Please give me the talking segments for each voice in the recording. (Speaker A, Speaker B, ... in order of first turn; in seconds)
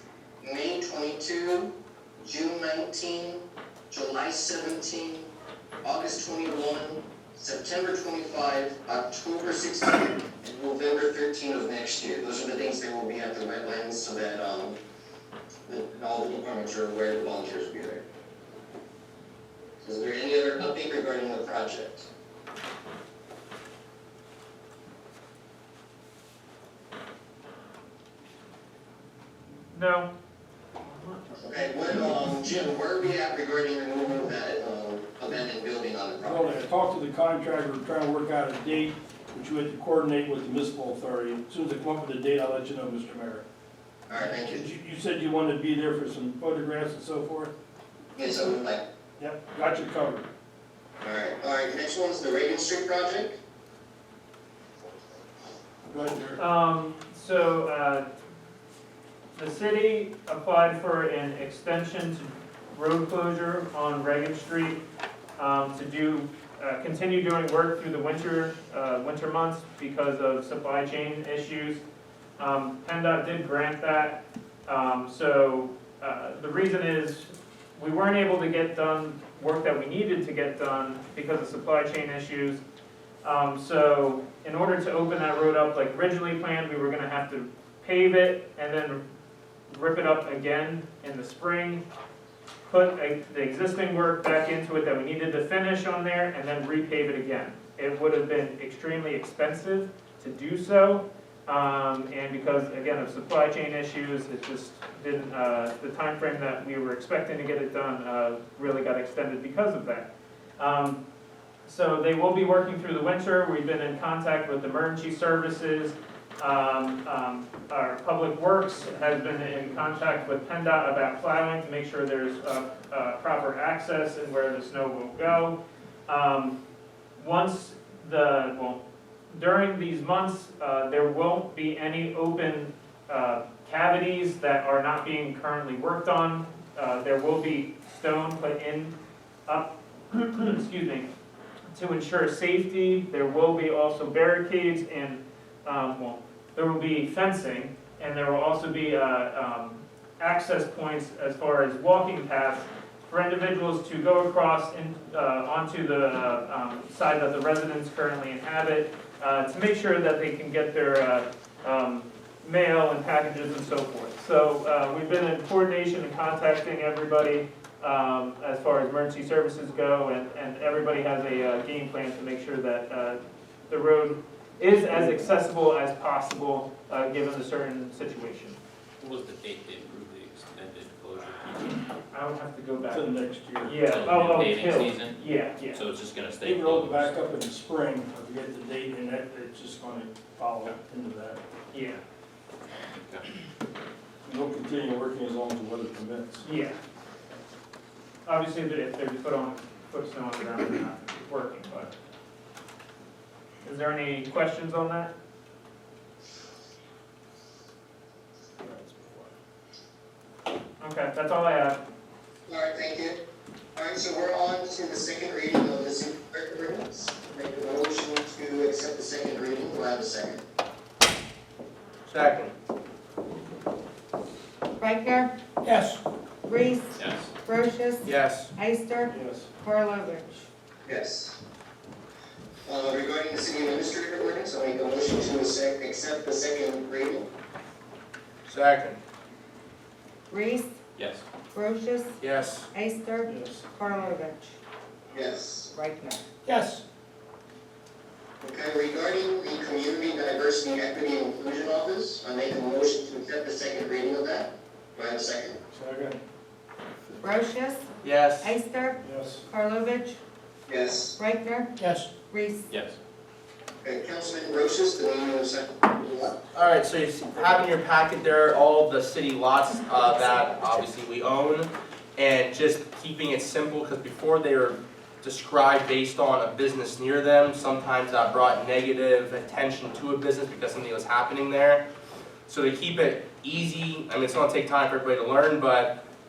Speaker A: 0.4-5.3, 5.8-14.8, 15.7-18.0, 19.8-22.1, 31.4-36.5, 44.1-44.6, 48.1-48.8, 51.0-53.4, 212.5-213.2, 213.7-220.4, 230.8-231.4, 232.7-237.3, 245.1-245.7, 248.4-255.6, 260.7-261.2, 263.8-266.4
Speaker B: 29.7-30.1, 30.8-31.4, 56.4-58.1, 59.4-64.8, 65.4-71.8, 72.4-82.6, 83.2-89.0, 89.7-91.8, 92.6-111.0, 111.7-126.6, 127.2-138.9, 139.5-141.1, 141.7-178.6, 182.1-185.8, 191.7-192.0, 196.4-196.8, 198.2-201.9, 203.6-205.1, 210.8-211.8
Speaker C: 36.2-43.4, 44.4-47.5, 49.2-50.2, 55.9-56.4, 174.9-175.2, 182.9-183.8, 186.4-191.4, 194.2-196.4, 229.1-229.5, 243.3-243.6, 255.7-256.2, 259.0-259.4
Speaker D: 179.0-181.9, 183.8-187.4, 227.0-227.3, 240.9-241.2, 262.7-263.0
Speaker E: 222.1-222.5, 228.0-228.5, 238.4-239.0, 242.2-242.7, 258.0-258.6, 266.5-281.8, 282.5-285.9
Speaker F: 224.8-225.3, 226.4-230.5, 240.3-240.8, 241.5-242.2, 242.7-244.6, 245.7-246.2, 257.2-257.9, 258.4-260.2, 261.2-262.7